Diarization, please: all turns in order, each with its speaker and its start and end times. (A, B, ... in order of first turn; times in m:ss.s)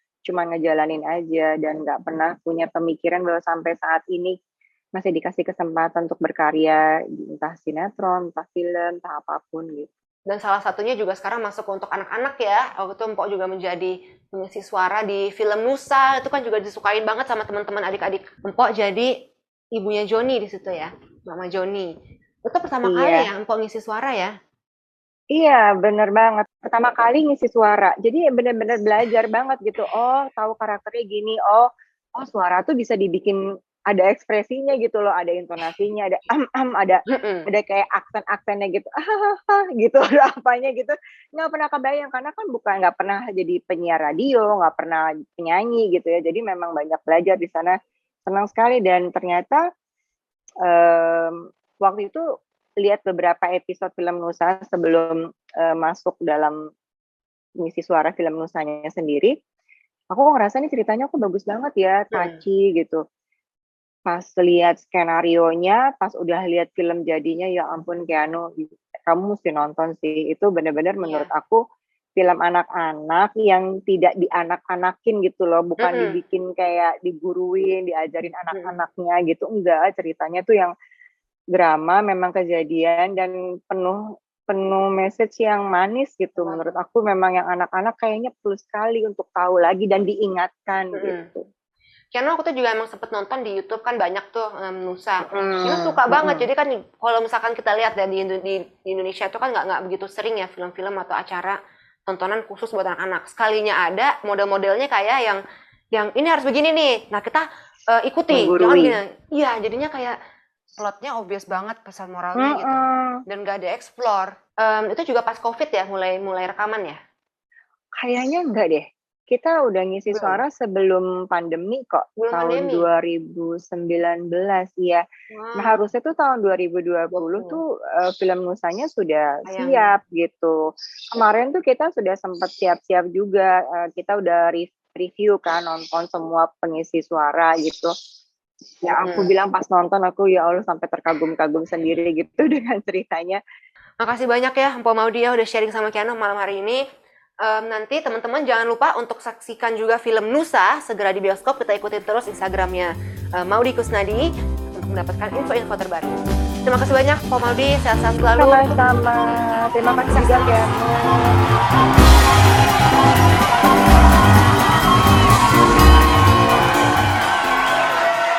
0:00.3-0:04.4 A
0:05.0-0:09.9 A
0:10.3-0:19.1 B
0:19.8-0:21.9 B
0:22.4-0:24.3 B
0:22.8-0:23.3 A
0:25.3-0:47.8 A
0:37.1-0:37.4 B
0:48.3-0:49.6 A
0:50.6-0:52.2 A
0:52.8-0:56.6 A
0:57.6-0:59.3 A
1:00.1-1:03.0 A
1:02.1-1:02.4 B
1:04.1-1:11.6 A
1:11.0-1:11.3 B
1:12.2-1:20.7 A
1:15.8-1:16.2 B
1:18.5-1:18.8 B
1:21.5-1:31.4 A
1:26.4-1:26.8 B
1:30.9-1:31.3 B
1:32.1-1:45.4 B
1:35.3-1:36.5 A
1:45.9-1:50.2 B
1:48.3-1:49.0 A
1:50.8-1:57.0 B
1:52.4-1:53.2 A
1:58.0-2:05.0 A
2:00.1-2:00.4 B
2:02.2-2:02.8 B
2:05.3-2:05.8 B
2:05.6-2:10.6 A
2:07.1-2:07.6 B
2:09.5-2:09.9 B
2:11.1-2:17.9 A
2:18.8-2:23.4 A
2:19.0-2:19.3 B
2:24.0-2:26.8 B
2:27.4-2:34.3 B
2:34.8-2:38.8 B
2:38.4-2:41.4 A
2:40.1-2:40.7 B